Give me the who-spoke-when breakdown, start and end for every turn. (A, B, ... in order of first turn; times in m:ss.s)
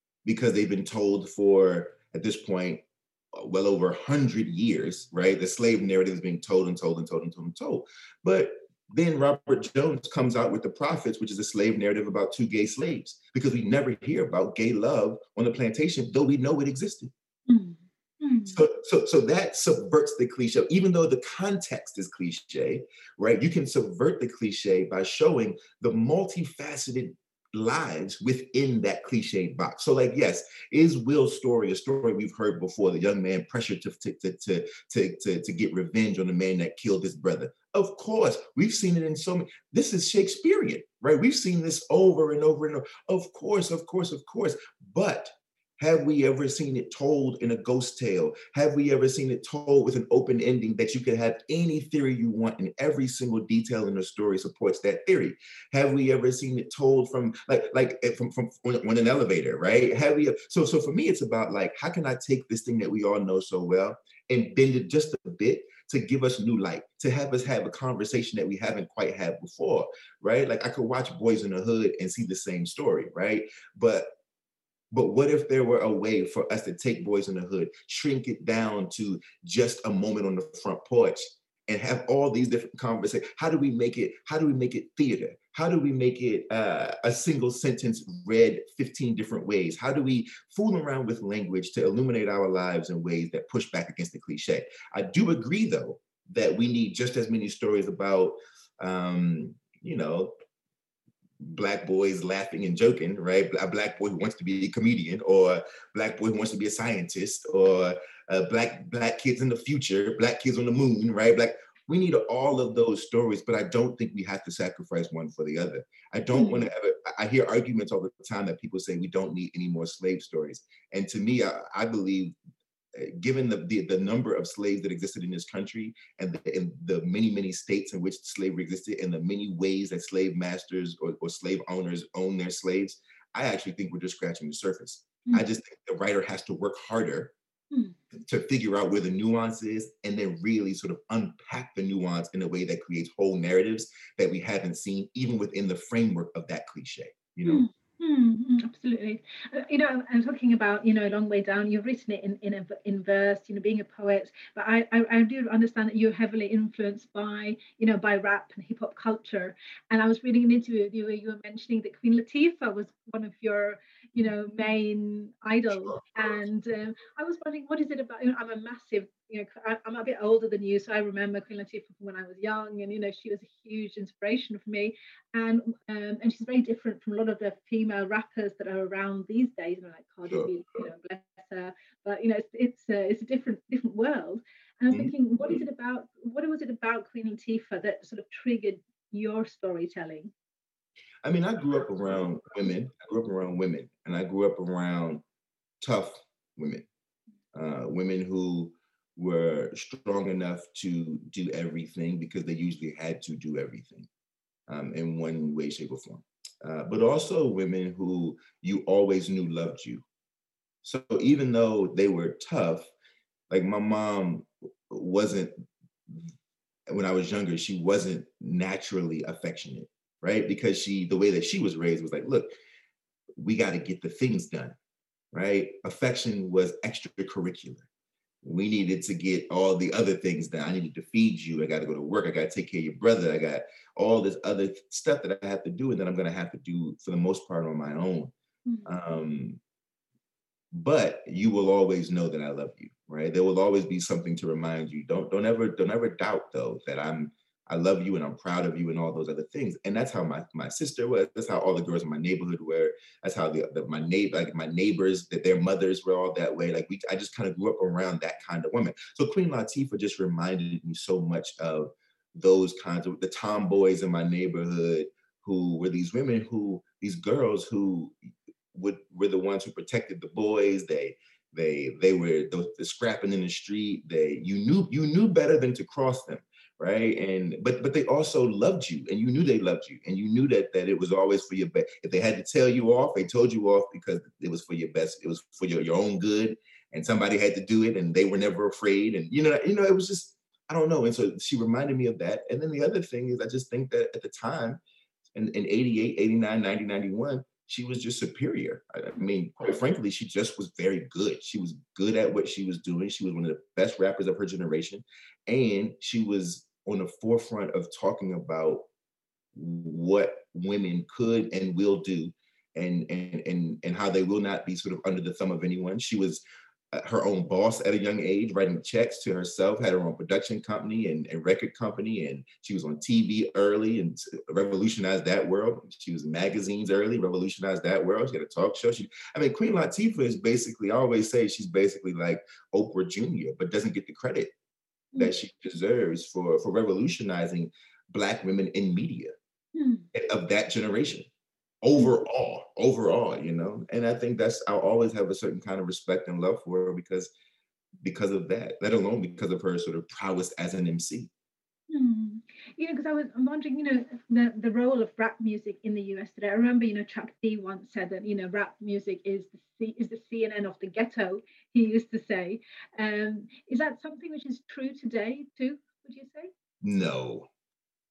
0:00.2-0:17.1 A
0:17.5-0:18.6 B
0:18.5-1:14.1 A
1:14.9-1:40.3 A
1:41.4-2:02.4 A
1:56.3-1:56.6 B
2:02.9-2:17.3 A
2:17.7-2:18.0 B
2:18.1-2:27.6 A
2:27.4-3:10.3 B
3:11.2-3:15.2 A
3:15.8-3:16.9 A
3:17.5-3:24.1 A
3:24.7-3:30.0 A
3:30.8-3:32.9 A
3:33.5-3:35.5 A
3:36.9-3:42.5 A
3:43.4-3:44.8 A
3:45.3-3:47.9 A
3:48.4-3:58.3 A
3:58.6-3:59.0 B
3:58.9-3:59.6 A
4:00.7-4:28.2 A
4:28.7-4:54.8 A
4:55.4-5:08.8 A
5:09.5-5:34.5 A
5:35.2-5:39.3 A
5:39.8-5:40.1 B
5:40.1-5:41.3 A
5:41.8-5:47.3 A
5:48.0-5:51.3 A
5:51.9-6:06.5 B
6:06.8-6:07.5 A